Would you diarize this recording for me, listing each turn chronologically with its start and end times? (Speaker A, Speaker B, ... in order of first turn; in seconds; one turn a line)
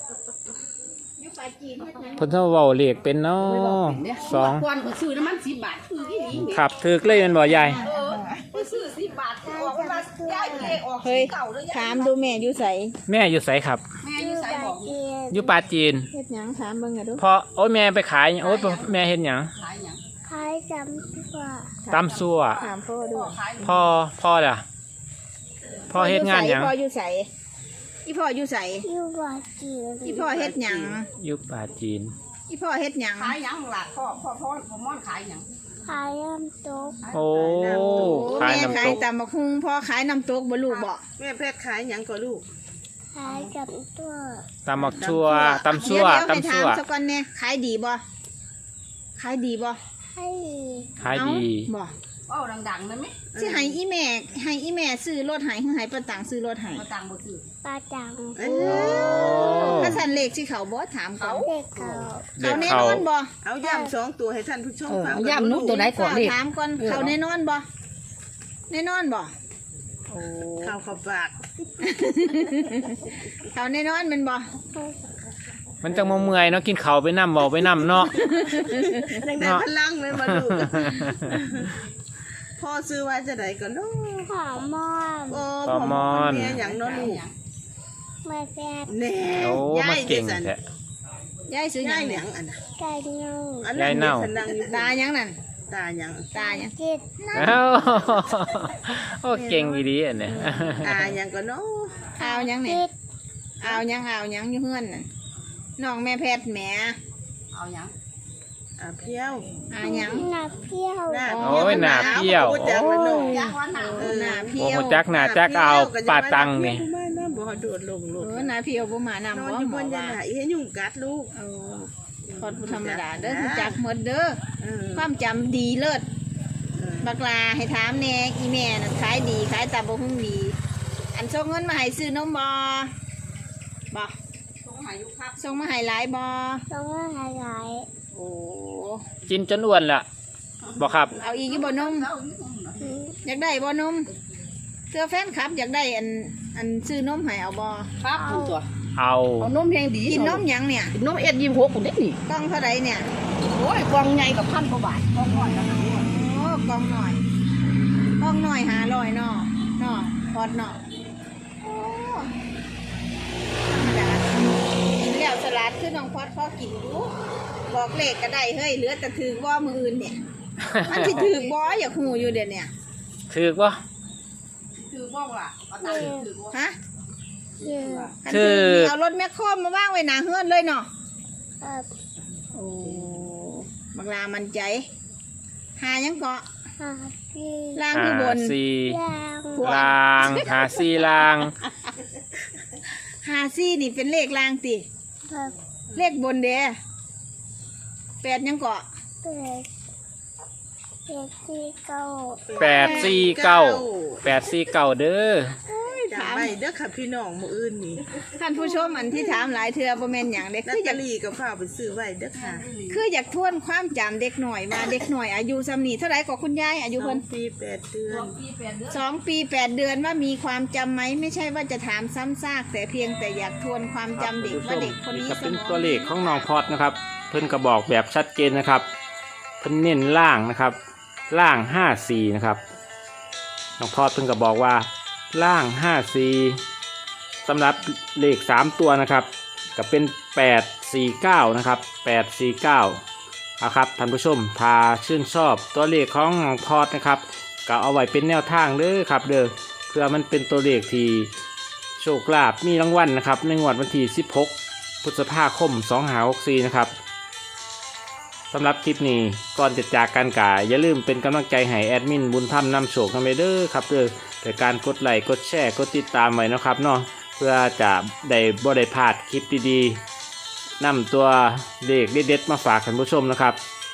Speaker A: 1.2-2.3
Speaker B: 2.2-4.7
Speaker C: 3.4-6.6
Speaker D: 6.2-6.4
Speaker B: 6.4-7.8
Speaker A: 7.4-8.4
Speaker C: 7.8-12.4
Speaker D: 9.4-10.8
Speaker A: 11.0-12.9
Speaker B: 13.1-13.8
Speaker C: 14.0-14.9
Speaker D: 14.2-15.6
Speaker B: 15.3-16.1
Speaker A: 16.1-17.2
Speaker B: 17.2-19.5
Speaker C: 18.4-18.9
Speaker C: 19.6-20.0
Speaker D: 20.3-21.8
Speaker A: 21.9-23.4
Speaker B: 21.9-22.6
Speaker C: 21.9-23.9
Speaker B: 23.6-24.6
Speaker B: 25.9-26.7
Speaker A: 25.9-27.3
Speaker A: 28.1-28.9
Speaker D: 28.8-30.2
Speaker C: 30.0-31.0
Speaker A: 30.1-31.1
Speaker B: 31.2-32.1
Speaker A: 32.5-33.4
Speaker C: 33.2-35.5
Speaker D: 35.9-37.0
Speaker C: 37.0-37.8
Speaker B: 37.1-39.0
Speaker E: 37.5-38.9
Speaker A: 38.0-41.0
Speaker E: 41.2-42.5
Speaker D: 43.1-44.5
Speaker C: 43.2-43.5
Speaker B: 44.7-46.8
Speaker E: 44.8-46.0
Speaker A: 45.1-48.0
Speaker C: 45.8-46.2
Speaker A: 49.2-49.8
Speaker D: 50.2-51.0
Speaker B: 51.0-51.7
Speaker A: 51.1-51.9
Speaker C: 52.3-53.2
Speaker E: 53.3-53.8
Speaker A: 53.4-56.9
Speaker C: 56.7-57.5
Speaker D: 57.6-58.7
Speaker E: 58.4-59.9
Speaker B: 58.6-60.0
Speaker A: 58.6-61.5
Speaker D: 59.4-60.0
Speaker C: 61.2-62.1
Speaker D: 61.4-62.3
Speaker B: 62.4-63.0
Speaker A: 62.4-63.3
Speaker E: 62.4-65.9
Speaker D: 63.6-63.9
Speaker C: 64.9-67.2
Speaker A: 65.7-67.7
Speaker A: 68.7-69.3
Speaker E: 70.6-71.4
Speaker A: 71.8-72.9
Speaker A: 73.5-74.4
Speaker B: 75.8-78.2
Speaker E: 77.9-81.8
Speaker A: 78.1-79.2
Speaker B: 79.4-81.4
Speaker E: 82.6-84.3
Speaker D: 84.3-85.5
Speaker E: 85.3-87.2
Speaker B: 85.7-86.6
Speaker C: 86.5-87.3
Speaker D: 88.2-89.0
Speaker E: 88.9-90.5
Speaker B: 89.4-90.6
Speaker A: 91.5-92.2
Speaker E: 91.8-92.6
Speaker D: 92.8-94.1
Speaker E: 93.6-94.9
Speaker B: 93.8-94.3
Speaker A: 94.6-95.4
Speaker E: 95.7-96.3
Speaker D: 96.4-97.1
Speaker A: 96.4-97.6
Speaker B: 97.3-101.0
Speaker E: 99.3-99.8
Speaker E: 100.8-102.1
Speaker A: 102.2-102.8
Speaker D: 102.2-102.9
Speaker A: 103.6-105.1
Speaker A: 105.8-107.0
Speaker C: 107.5-107.9
Speaker E: 108.8-109.6
Speaker A: 109.7-110.3
Speaker D: 109.8-111.7
Speaker E: 111.1-118.5
Speaker A: 111.3-115.1
Speaker B: 111.4-112.9
Speaker C: 113.1-114.5
Speaker B: 114.6-116.9
Speaker A: 118.2-120.2
Speaker E: 119.3-121.3
Speaker A: 121.3-124.4
Speaker E: 122.3-123.8
Speaker E: 124.6-125.1
Speaker A: 125.0-126.0
Speaker E: 126.8-127.1
Speaker A: 127.0-130.6
Speaker A: 131.1-132.9
Speaker C: 134.7-135.4
Speaker A: 135.4-136.6
Speaker D: 136.7-137.9
Speaker A: 138.2-139.0
Speaker B: 139.3-140.1
Speaker C: 140.7-142.9
Speaker B: 140.8-141.1
Speaker A: 141.2-142.1
Speaker D: 142.8-143.2
Speaker A: 143.2-144.1
Speaker A: 144.9-147.9
Speaker C: 148.0-148.7
Speaker D: 148.2-148.6
Speaker B: 149.0-149.5
Speaker C: 149.4-152.2
Speaker A: 150.1-150.9
Speaker A: 152.3-153.1
Speaker C: 153.5-156.1
Speaker A: 155.4-157.2
Speaker A: 158.2-160.8
Speaker A: 161.6-162.3
Speaker A: 163.6-164.3
Speaker A: 164.9-167.1
Speaker A: 167.7-170.2
Speaker B: 170.6-171.3
Speaker A: 170.8-172.7
Speaker C: 170.9-171.6
Speaker B: 173.3-173.8
Speaker C: 174.9-176.6
Speaker D: 175.8-176.3
Speaker A: 176.5-176.8
Speaker C: 177.6-178.1
Speaker D: 177.7-178.1
Speaker A: 178.2-180.9
Speaker B: 178.3-178.9
Speaker D: 181.6-181.9
Speaker A: 182.6-184.8
Speaker A: 185.8-186.4
Speaker D: 186.8-187.8
Speaker A: 187.8-188.6
Speaker B: 187.9-189.0
Speaker D: 188.9-189.7
Speaker A: 189.6-190.6
Speaker B: 189.6-191.6
Speaker A: 193.2-194.8
Speaker D: 195.3-195.6
Speaker A: 195.9-196.8
Speaker A: 198.2-198.8
Speaker D: 199.2-199.7
Speaker D: 201.1-202.5
Speaker E: 202.5-204.2
Speaker B: 202.6-205.6
Speaker A: 202.7-203.2
Speaker A: 205.7-206.5
Speaker E: 205.9-209.5
Speaker A: 208.3-211.0
Speaker E: 210.7-212.7
Speaker C: 212.3-213.0
Speaker A: 212.9-217.2
Speaker E: 217.0-218.4
Speaker C: 218.1-219.1
Speaker A: 218.9-226.5
Speaker B: 224.2-228.9
Speaker B: 229.6-230.8
Speaker B: 231.3-232.6
Speaker B: 233.8-236.6
Speaker B: 237.4-243.0
Speaker B: 243.6-251.3
Speaker B: 252.0-256.9
Speaker B: 258.5-270.0
Speaker B: 270.8-273.6